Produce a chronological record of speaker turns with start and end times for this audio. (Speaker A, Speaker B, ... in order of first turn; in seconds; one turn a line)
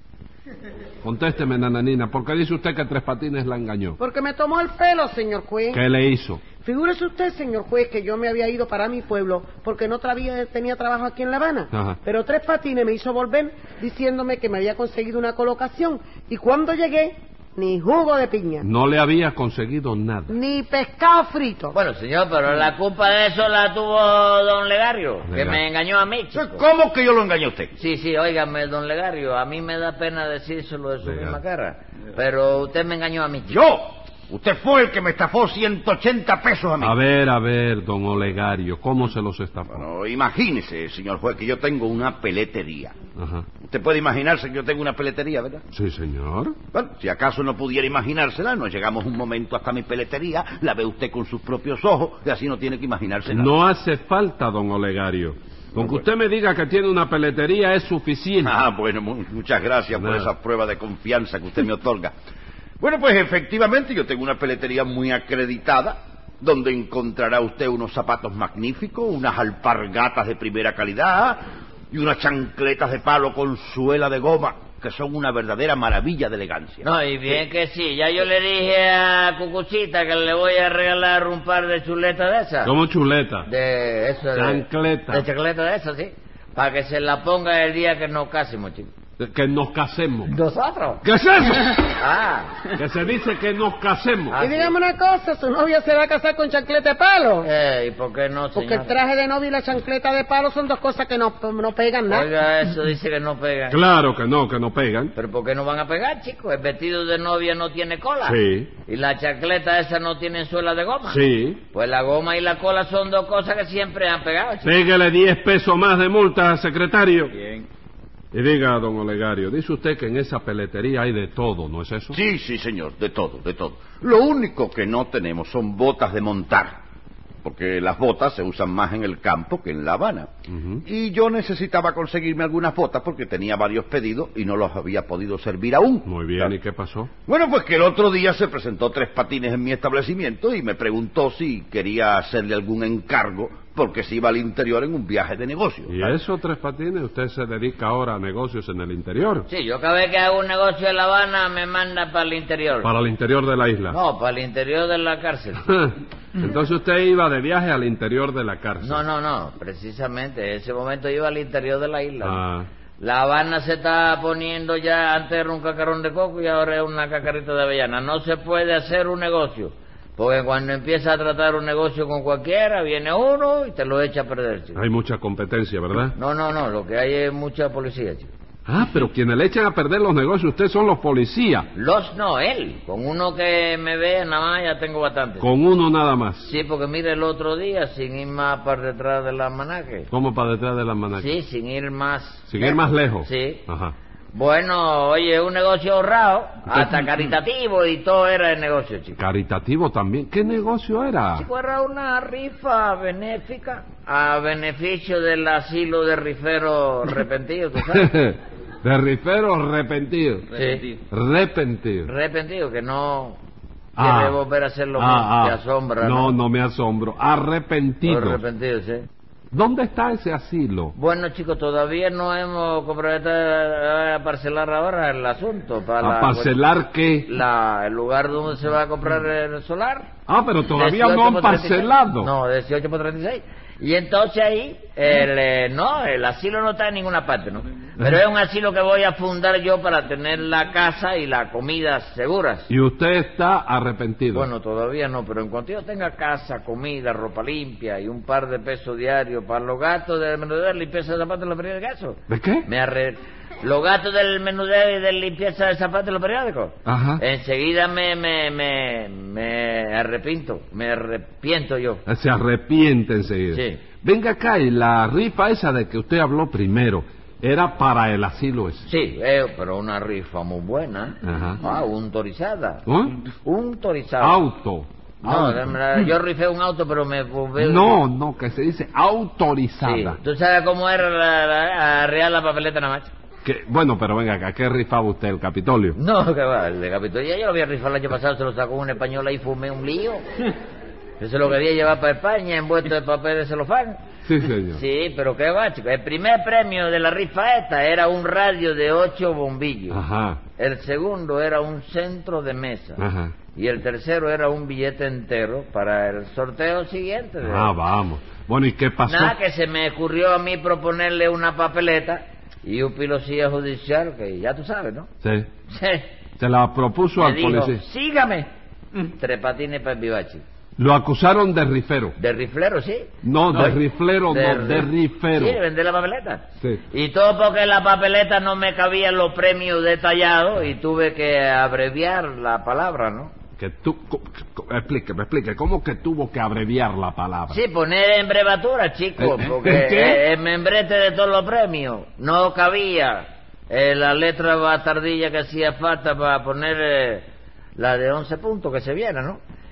Speaker A: 1.0-4.0
Speaker B: 4.0-5.8
Speaker A: 5.7-6.4
Speaker B: 6.6-18.7
Speaker A: 11.7-12.0
Speaker A: 18.6-20.4
Speaker B: 20.3-21.8
Speaker C: 21.7-26.6
Speaker A: 25.3-25.6
Speaker D: 26.3-27.7
Speaker C: 27.8-33.6
Speaker A: 31.0-31.4
Speaker D: 33.5-37.0
Speaker A: 36.8-39.9
Speaker D: 39.7-42.9
Speaker A: 43.2-43.5
Speaker D: 43.6-45.6
Speaker A: 45.7-46.6
Speaker D: 46.7-53.5
Speaker A: 53.3-58.5
Speaker D: 55.8-56.0
Speaker D: 58.4-62.1
Speaker A: 60.0-60.3
Speaker D: 62.8-76.8
Speaker C: 76.8-82.7
Speaker A: 82.6-83.5
Speaker C: 83.5-88.9
Speaker A: 84.3-85.3
Speaker A: 89.2-90.3
Speaker C: 90.3-91.0
Speaker A: 91.0-91.8
Speaker C: 91.8-92.6
Speaker A: 92.8-94.4
Speaker C: 94.3-94.7
Speaker B: 94.4-97.5
Speaker C: 97.4-98.9
Speaker B: 98.5-102.3
Speaker C: 102.1-103.8
Speaker A: 103.7-105.1
Speaker C: 105.2-114.8
Speaker A: 108.2-108.7
Speaker A: 111.0-111.6
Speaker A: 114.6-117.3
Speaker A: 118.3-122.2
Speaker D: 122.1-126.8
Speaker D: 127.4-130.3
Speaker A: 130.5-130.8
Speaker D: 130.8-136.5
Speaker A: 136.1-137.1
Speaker D: 137.3-146.2
Speaker A: 145.9-149.5
Speaker C: 149.5-152.9
Speaker A: 152.8-154.0
Speaker C: 153.9-155.6
Speaker A: 155.7-159.0
Speaker C: 158.8-162.4
Speaker A: 162.2-162.7
Speaker C: 163.0-174.8
Speaker A: 174.8-176.2
Speaker C: 176.1-178.3
Speaker A: 178.7-181.7
Speaker C: 181.7-185.5
Speaker A: 185.4-186.5
Speaker C: 186.4-190.1
Speaker A: 190.1-191.4
Speaker C: 191.2-193.6
Speaker A: 192.5-193.9
Speaker C: 194.3-199.2
Speaker A: 199.2-201.5
Speaker C: 201.3-208.1
Speaker A: 207.9-210.5
Speaker C: 210.5-210.9
Speaker A: 211.1-212.1
Speaker C: 212.1-213.4
Speaker A: 214.0-214.4
Speaker C: 214.0-216.3
Speaker A: 215.0-218.4
Speaker C: 218.1-219.1
Speaker A: 219.5-220.9
Speaker C: 220.9-226.7
Speaker A: 226.0-227.3
Speaker C: 227.2-230.1
Speaker A: 230.3-232.3
Speaker C: 230.7-242.7
Speaker A: 242.7-244.5
Speaker C: 244.3-262.0
Speaker A: 252.3-252.7
Speaker A: 256.9-257.2
Speaker A: 262.1-268.9
Speaker C: 263.5-263.8
Speaker C: 268.9-272.8
Speaker A: 271.2-271.6
Speaker A: 272.9-273.2
Speaker C: 273.4-274.4
Speaker A: 274.2-275.8
Speaker C: 275.2-278.0
Speaker A: 277.6-280.2
Speaker C: 279.8-283.1
Speaker A: 283.4-286.0
Speaker C: 286.0-290.2
Speaker C: 291.2-294.0
Speaker A: 294.2-294.8
Speaker C: 294.7-300.0
Speaker A: 299.9-300.4
Speaker C: 300.6-303.0
Speaker A: 303.0-303.3
Speaker C: 303.6-307.7
Speaker A: 307.4-309.4
Speaker C: 309.1-315.1
Speaker A: 315.2-315.5
Speaker C: 315.7-316.1
Speaker A: 316.4-317.8
Speaker C: 317.2-318.5
Speaker C: 319.1-320.4
Speaker A: 320.8-322.2
Speaker C: 322.2-333.3
Speaker A: 323.2-325.6
Speaker A: 333.6-337.6
Speaker C: 337.5-349.4
Speaker A: 339.2-340.2